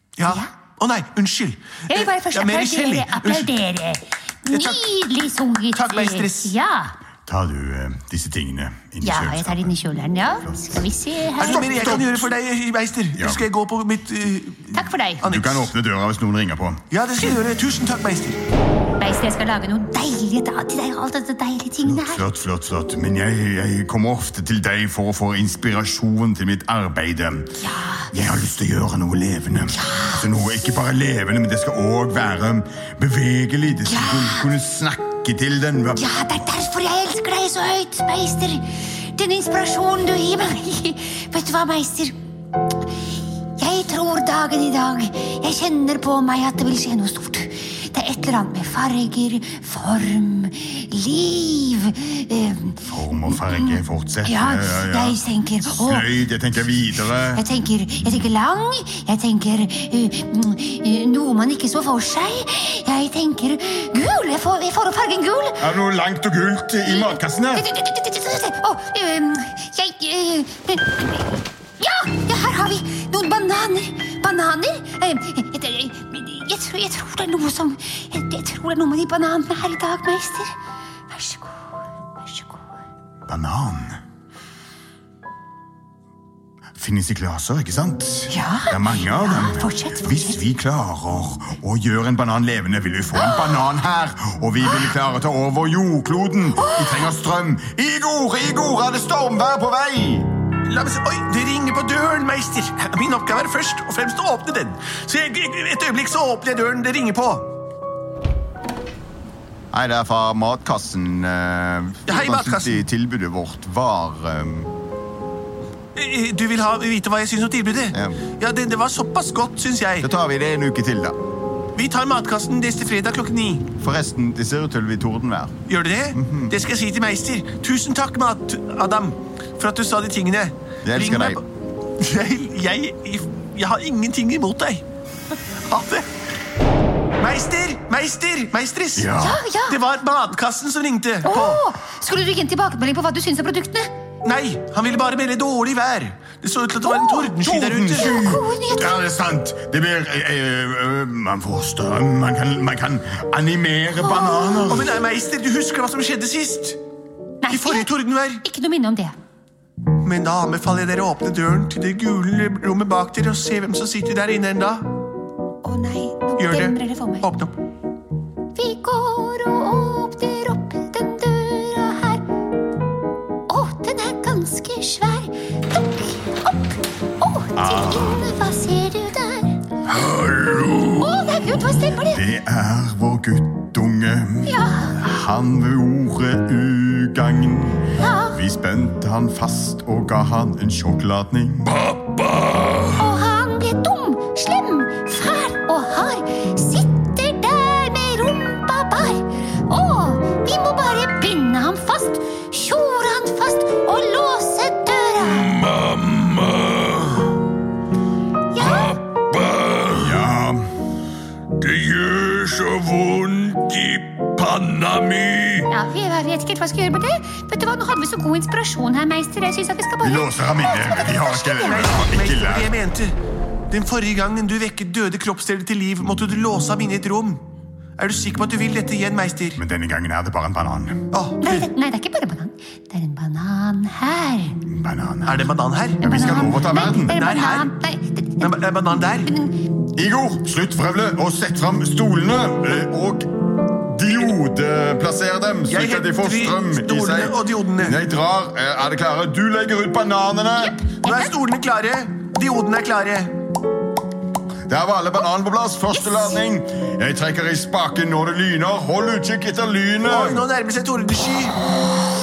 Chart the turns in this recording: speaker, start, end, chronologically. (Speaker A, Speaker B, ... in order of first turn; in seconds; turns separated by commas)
Speaker A: 0.2-3.5, Speaker B: 1.9-6.9, Speaker A: 4.5-4.9, Speaker A: 5.7-6.5, Speaker C: 7.2-10.8, Speaker B: 9.0-12.3, Speaker A: 11.4-15.7, Speaker C: 11.8-12.0, Speaker C: 13.1-13.4, Speaker B: 14.7-15.2, Speaker C: 15.2-16.8, Speaker A: 16.9-18.4, Speaker B: 19.0-22.2, Speaker C: 21.8-27.6, Speaker B: 27.6-28.1, Speaker C: 28.1-36.0, Speaker B: 29.7-30.2, Speaker B: 33.8-34.5, Speaker B: 36.0-42.1, Speaker B: 43.5-56.1, Speaker C: 52.8-57.4, Speaker B: 57.3-65.6, Speaker C: 65.6-67.6, Speaker B: 66.8-80.5, Speaker B: 81.1-82.6, Speaker C: 83.3-84.0, Speaker C: 86.8-100.3, Speaker B: 88.3-90.4, Speaker B: 93.1-93.7, Speaker B: 94.7-94.9, Speaker B: 96.6-97.1, Speaker A: 100.6-107.5, Speaker C: 109.7-114.7, Speaker A: 112.0-112.8, Speaker A: 115.9-120.1, Speaker C: 117.9-118.2, Speaker C: 120.0-121.2, Speaker A: 121.7-123.7, Speaker C: 123.8-125.6, Speaker A: 125.7-131.5, Speaker C: 126.1-126.5, Speaker C: 130.8-131.4, Speaker A: 132.0-136.1, Speaker A: 137.2-139.1, Speaker C: 138.9-139.4, Speaker B: 139.2-139.8, Speaker A: 139.7-141.6, Speaker B: 141.2-143.9, Speaker A: 144.2-148.1, Speaker B: 146.8-147.3, Speaker C: 147.4-154.9, Speaker B: 147.9-148.9, Speaker B: 154.0-154.7, Speaker A: 154.7-156.8, Speaker B: 157.4-157.9, Speaker A: 157.5-158.4, Speaker B: 158.4-159.2, Speaker A: 160.0-164.8, Speaker B: 165.6-167.3, Speaker A: 166.4-167.6, Speaker B: 168.5-172.2, Speaker B: 173.5-179.6, Speaker C: 177.6-178.2, Speaker C: 180.0-180.8, Speaker B: 180.8-182.2, Speaker C: 182.0-192.8, Speaker B: 184.4-185.0, Speaker B: 188.0-188.4, Speaker B: 192.9-205.8, Speaker C: 206.1-206.6, Speaker B: 208.5-209.0, Speaker C: 209.4-210.6, Speaker C: 211.6-215.7, Speaker B: 215.7-221.9, Speaker C: 220.0-222.7, Speaker A: 221.6-223.2, Speaker A: 223.7-227.4, Speaker A: 228.0-229.6, Speaker C: 229.6-231.0, Speaker A: 231.1-231.7, Speaker B: 231.4-234.6, Speaker C: 234.7-237.2, Speaker A: 235.2-236.1, Speaker B: 236.0-239.6, Speaker A: 237.1-237.7, Speaker A: 238.4-239.3, Speaker C: 239.9-250.8, Speaker A: 245.7-248.0, Speaker B: 250.6-251.3, Speaker A: 251.0-253.3, Speaker C: 254.7-260.4, Speaker A: 260.0-261.6